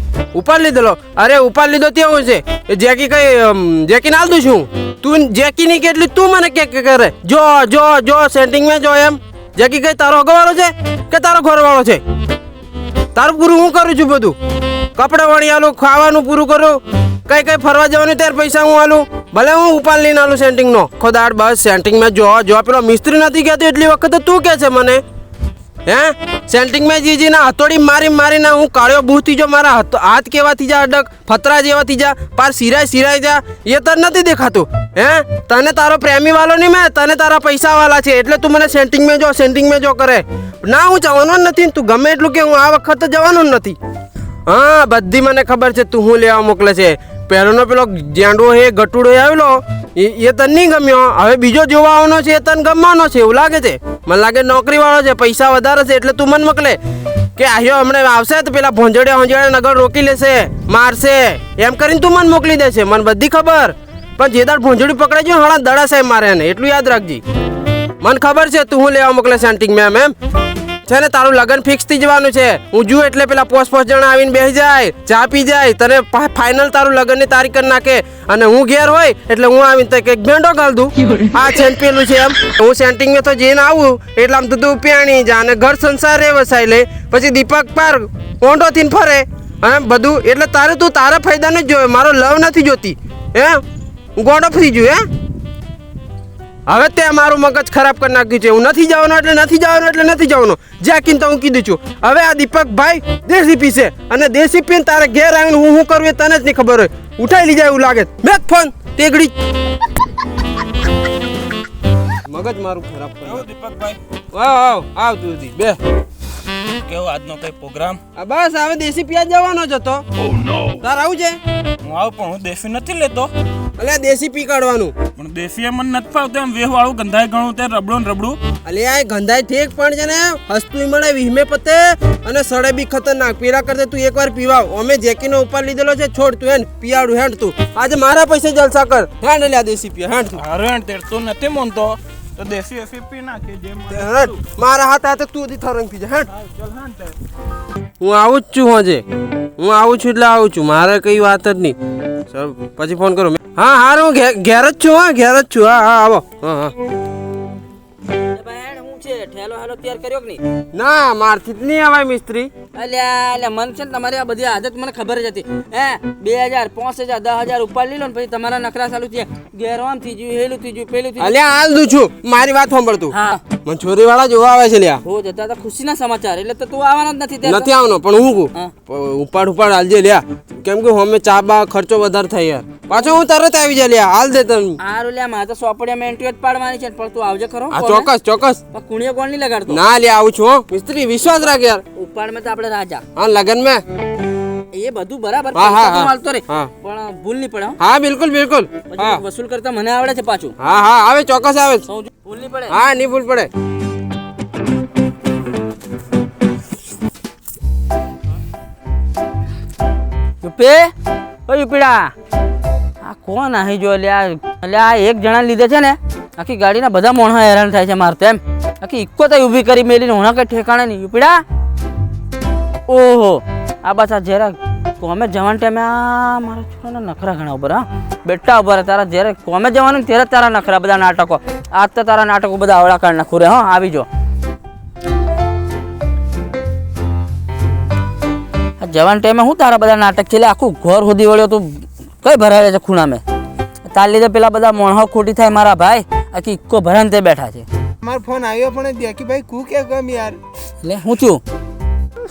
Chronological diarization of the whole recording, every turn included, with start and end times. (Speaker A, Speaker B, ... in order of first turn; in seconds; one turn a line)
Speaker A: 0.3-12.0
Speaker A: 13.2-14.4
Speaker A: 15.0-25.0
Speaker A: 25.9-43.8
Speaker A: 44.5-56.8
Speaker A: 57.4-67.2
Speaker A: 68.0-70.1
Speaker A: 70.9-93.6
Speaker A: 94.2-95.1
Speaker A: 96.7-109.3
Speaker A: 112.3-113.5
Speaker B: 113.3-114.0
Speaker A: 114.3-115.8
Speaker B: 116.8-118.0
Speaker A: 118.2-120.1
Speaker B: 120.4-120.7
Speaker A: 120.8-121.4
Speaker B: 121.8-123.3
Speaker A: 123.8-124.9
Speaker B: 125.2-128.4
Speaker A: 128.6-140.4
Speaker B: 140.4-144.3
Speaker A: 143.9-146.3
Speaker B: 146.4-147.1
Speaker A: 148.0-149.0
Speaker A: 149.6-151.8
Speaker A: 152.3-156.7
Speaker C: 158.3-160.4
Speaker A: 160.7-162.5
Speaker C: 162.7-171.3
Speaker A: 171.2-175.0
Speaker C: 173.1-173.4
Speaker C: 175.0-177.7
Speaker A: 177.4-184.8
Speaker C: 184.8-188.1
Speaker A: 187.7-188.6
Speaker C: 188.7-189.8
Speaker A: 189.7-191.8
Speaker C: 191.9-193.0
Speaker A: 193.2-193.8
Speaker C: 194.7-197.8
Speaker A: 195.6-196.7
Speaker A: 197.8-199.2
Speaker C: 198.9-200.5
Speaker A: 200.6-201.9
Speaker C: 201.9-202.8
Speaker A: 202.7-203.5
Speaker C: 210.4-210.9
Speaker C: 211.5-212.1
Speaker C: 213.0-221.4
Speaker C: 222.9-234.1
Speaker C: 238.8-243.2
Speaker C: 243.8-247.7
Speaker D: 248.0-250.4
Speaker C: 250.8-251.4